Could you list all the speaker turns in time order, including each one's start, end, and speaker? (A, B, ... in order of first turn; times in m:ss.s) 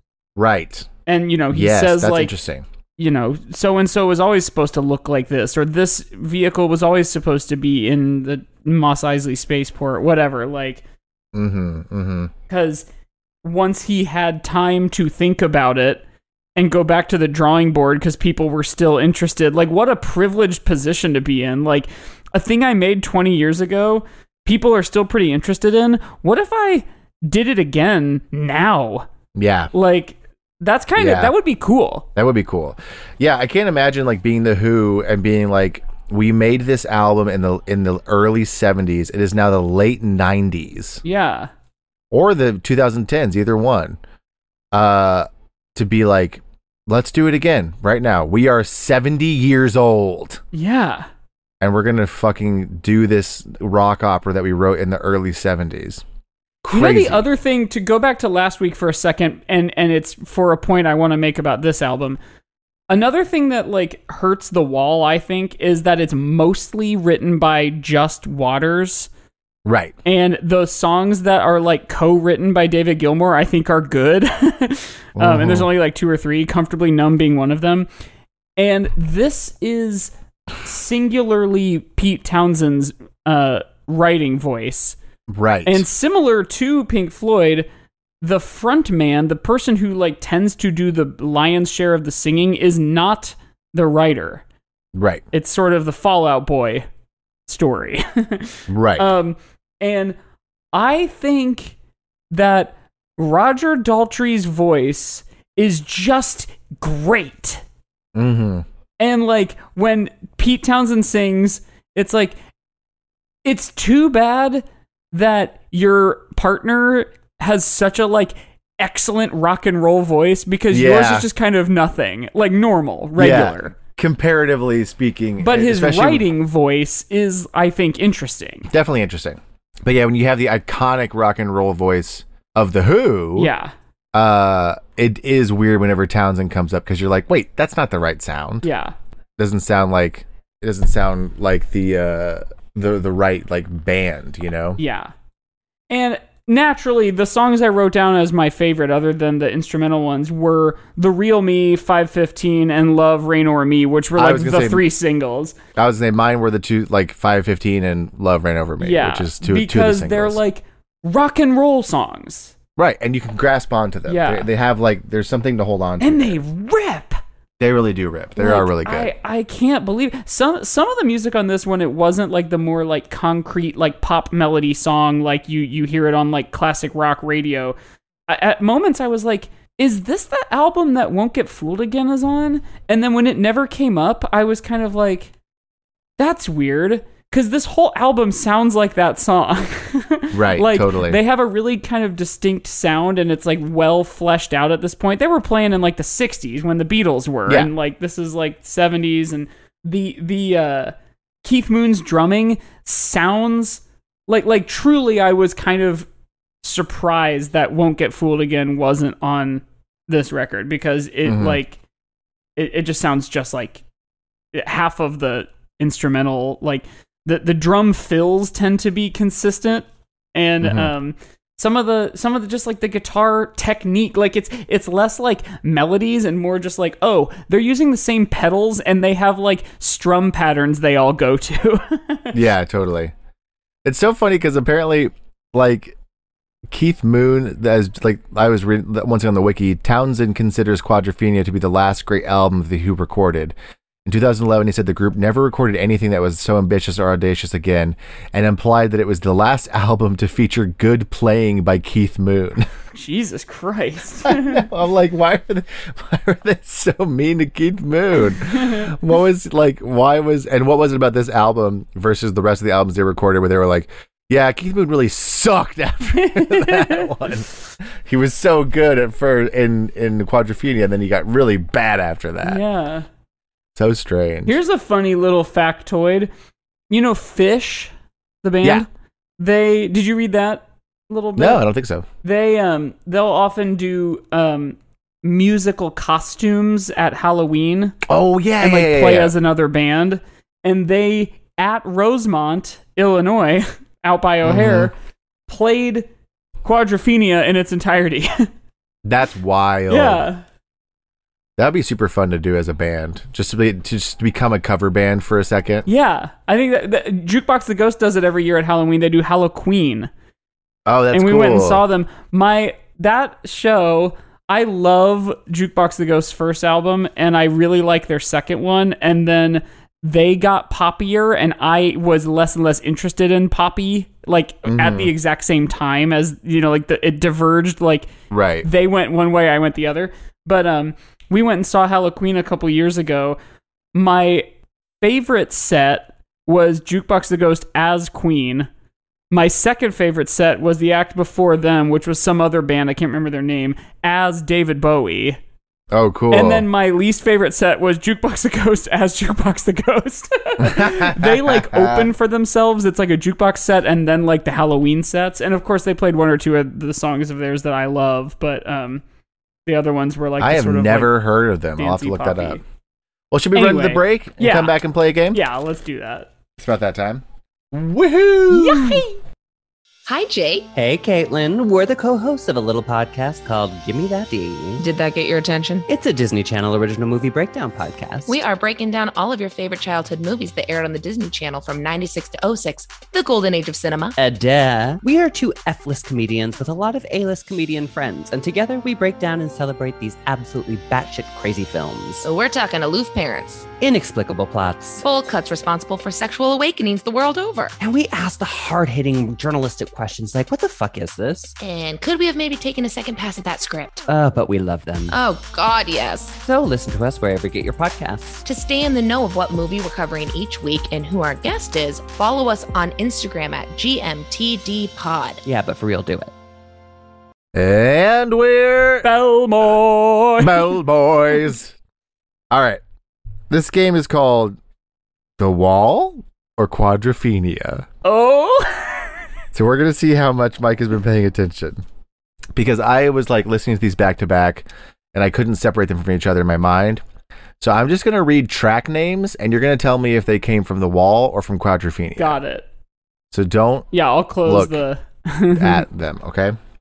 0:00.4-0:00.9 A
0:01.1-0:02.3 B
0:01.5-0:02.6 A
0:03.0-0:10.8 B
0:11.3-0:12.3 A
0:12.5-0:12.9 B
0:13.4-0:16.0 B
0:16.6-0:29.1 B
0:29.4-0:29.7 A
0:29.7-0:32.1 B
0:31.0-0:31.3 A
0:32.2-0:41.0 A
0:41.0-0:41.5 B
0:42.1-0:44.0 A
0:44.7-0:50.4 A
0:50.5-0:51.1 B
0:51.6-0:56.0 A
0:56.6-0:57.2 A
0:56.7-1:02.2 B
1:02.9-1:09.1 B
1:09.6-1:10.0 A
1:10.0-1:17.9 B
1:15.2-1:15.7 A
1:18.6-1:25.0 B
1:25.3-1:25.9 A
1:25.7-1:27.7 B
1:28.2-1:34.4 B
1:34.9-1:35.2 A
1:35.3-1:36.8 B
1:37.5-1:40.2 B
1:38.7-1:39.1 A
1:40.7-1:41.8 B
1:42.3-1:47.6 B
1:48.2-1:48.6 A
1:49.0-1:52.4 B
1:53.4-2:03.7 B
2:00.7-2:01.3 A
2:03.2-2:06.3 A
2:05.4-2:08.7 B
2:08.7-2:13.5 A
2:13.4-2:13.7 B
2:14.1-2:18.7 A
2:18.6-2:18.9 B
2:19.4-2:24.8 A
2:24.8-2:25.1 B
2:25.9-2:35.6 B
2:34.2-2:34.9 A
2:35.8-2:40.4 A
2:38.8-2:42.5 B
2:42.8-2:46.4 A
2:44.1-2:44.5 B
2:46.0-2:47.2 B
2:47.6-2:49.1 A
2:48.4-2:57.8 B
2:58.3-3:05.3 B
3:06.2-3:26.1 B
3:10.3-3:11.2 A
3:26.6-3:31.8 B
3:31.3-3:31.6 A
3:32.6-3:33.8 B
3:34.5-3:52.4 B
3:40.6-3:40.9 A
3:52.3-3:53.1 A
3:53.8-3:56.0 A
3:56.7-4:03.5 A
4:04.1-4:12.7 A
4:12.9-4:14.6 B
4:14.2-4:32.6 A
4:18.5-4:18.9 B
4:26.1-4:27.3 B
4:32.4-4:33.1 B
4:33.8-4:34.6 A
4:34.5-4:36.3 B
4:36.9-4:38.9 B
4:39.4-4:41.6 B
4:41.4-4:42.1 A
4:42.2-4:48.0 B
4:48.1-4:49.3 A
4:48.6-4:54.9 B
4:54.4-4:54.9 A
4:55.5-4:56.1 B
4:56.6-4:58.5 B
4:59.0-5:00.3 A
4:59.9-5:00.4 B
5:01.6-5:05.9 A
5:05.9-5:10.1 B
5:10.9-5:11.8 A
5:11.1-5:28.1 B
5:24.6-5:25.1 A
5:28.3-5:28.7 A
5:28.6-5:33.4 B
5:33.9-5:34.5 B
5:35.0-5:38.7 B
5:39.3-5:45.4 B
5:45.9-5:46.7 A
5:46.3-5:59.0 B
5:50.6-5:52.1 A
5:59.7-6:01.2 B
6:00.4-6:02.6 A
6:01.8-6:02.6 B
6:03.3-6:05.4 A
6:03.6-6:04.8 B
6:05.3-6:06.3 B
6:06.6-6:09.0 A
6:08.5-6:09.1 B
6:10.1-6:10.7 C
6:10.8-6:14.8 D
6:14.8-6:15.8 C
6:15.9-6:18.4 D
6:18.3-6:24.1 C
6:24.2-6:32.2 D
6:32.2-6:33.7 C
6:33.8-6:35.0 D
6:35.0-6:37.7 C
6:37.8-6:41.6 D
6:41.6-6:44.0 C
6:44.1-6:45.2 D
6:45.1-6:46.4 C
6:46.4-6:48.4 D
6:48.4-6:55.4 C
6:55.4-6:56.3 D
6:57.5-6:59.1 A
6:59.0-7:00.8 B
7:00.4-7:01.8 A
7:02.5-7:02.8 A
7:03.5-7:04.6 A
7:05.4-7:07.9 A
7:08.0-7:09.2 B
7:09.5-7:11.8 A
7:12.6-7:17.0 A
7:17.6-7:22.4 A
7:22.2-7:22.7 B
7:23.3-7:23.9 A
7:23.9-7:25.8 B
7:24.4-7:24.8 A
7:25.5-7:26.6 A